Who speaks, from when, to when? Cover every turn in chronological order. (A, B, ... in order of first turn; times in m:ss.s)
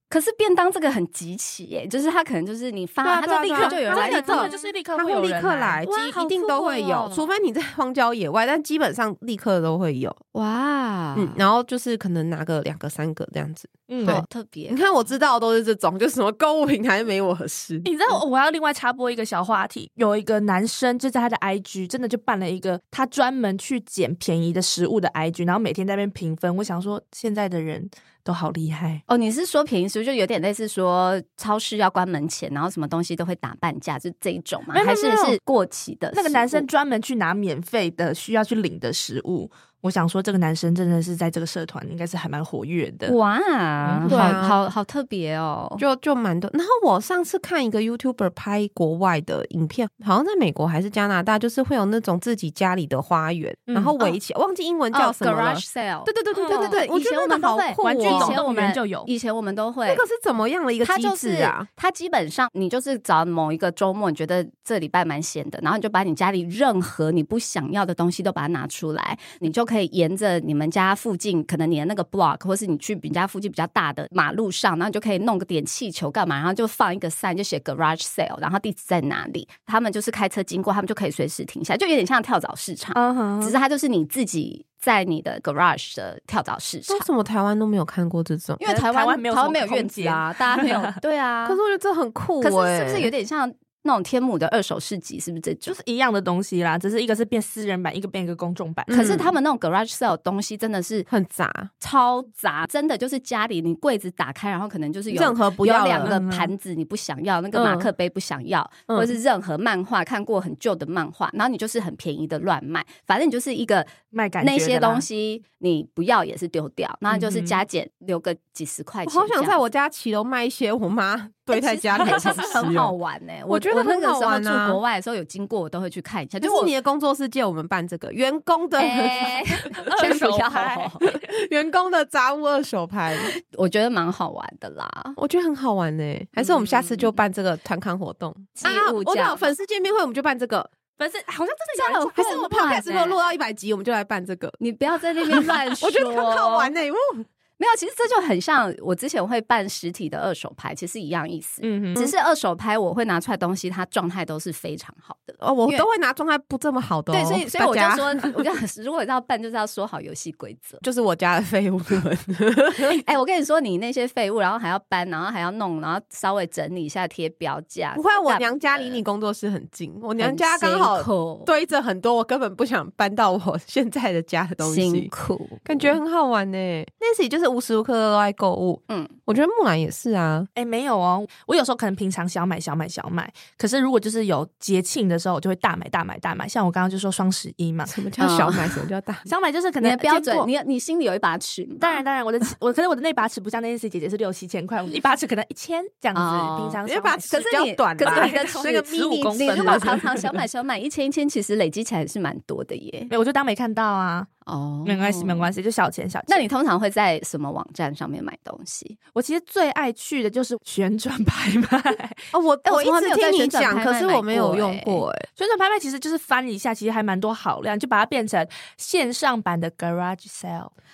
0:00.1-0:04.6 A
0:03.0-0:10.2 B
0:03.5-0:05.9 C
0:05.8-0:07.3 A
0:10.3-0:11.4 A
0:11.1-0:18.2 B
0:13.9-0:14.2 C
0:14.0-0:15.1 A
0:17.8-0:29.0 C
0:29.1-0:36.6 A
0:34.7-0:35.4 C
0:36.1-0:43.2 C
0:43.1-0:45.8 A
0:43.8-0:44.4 C
0:44.1-0:44.6 B
0:45.8-0:58.4 B
0:53.7-0:54.0 C
0:54.9-1:00.0 A
0:56.3-0:56.8 C
0:57.8-0:59.1 C
0:59.9-1:01.7 B
1:00.8-1:27.1 A
1:22.9-1:23.6 C
1:26.9-1:28.6 B
1:28.6-1:31.6 A
1:28.6-1:30.9 C
1:31.4-1:33.1 B
1:32.4-1:35.8 A
1:35.7-1:39.1 C
1:38.9-1:39.3 B
1:38.9-1:41.1 A
1:41.1-1:41.7 B
1:41.8-1:59.6 A
1:45.1-1:46.2 B
1:46.0-1:46.5 C
1:47.5-1:47.9 B
1:48.9-1:49.1 B
1:54.1-1:55.0 C
1:57.1-1:57.6 C
1:59.0-2:02.9 B
2:01.5-2:06.7 A
2:02.1-2:02.5 C
2:03.5-2:04.8 B
2:06.4-2:09.4 B
2:08.8-2:11.0 A
2:09.8-2:11.2 C
2:10.0-2:10.2 B
2:11.0-2:13.3 B
2:13.2-2:15.2 A
2:15.2-2:20.7 B
2:16.4-2:17.1 A
2:18.6-2:19.5 A
2:21.0-2:22.9 C
2:21.7-2:23.2 A
2:22.2-2:24.6 B
2:24.6-2:26.7 A
2:25.3-2:27.3 B
2:25.3-2:25.8 C
2:27.6-2:35.9 A
2:31.6-2:32.0 C
2:35.4-2:38.4 B
2:37.1-2:40.8 A
2:40.8-2:43.0 B
2:42.8-2:49.0 A
2:47.9-2:55.1 B
2:50.2-2:51.5 A
2:54.6-2:56.0 A
2:55.6-3:00.5 B
2:58.9-2:59.1 A
3:00.6-3:08.0 C
3:07.9-3:09.3 B
3:08.2-3:08.8 A
3:09.2-3:10.5 C
3:09.8-3:12.0 A
3:11.8-3:17.4 C
3:16.1-3:23.1 A
3:16.8-3:20.0 B
3:18.0-3:20.3 C
3:23.1-3:24.3 C
3:24.4-3:25.5 A
3:24.8-3:26.5 C
3:26.3-3:29.0 A
3:29.1-3:32.2 C
3:32.3-3:35.2 B
3:32.6-3:35.0 A
3:35.4-3:40.7 C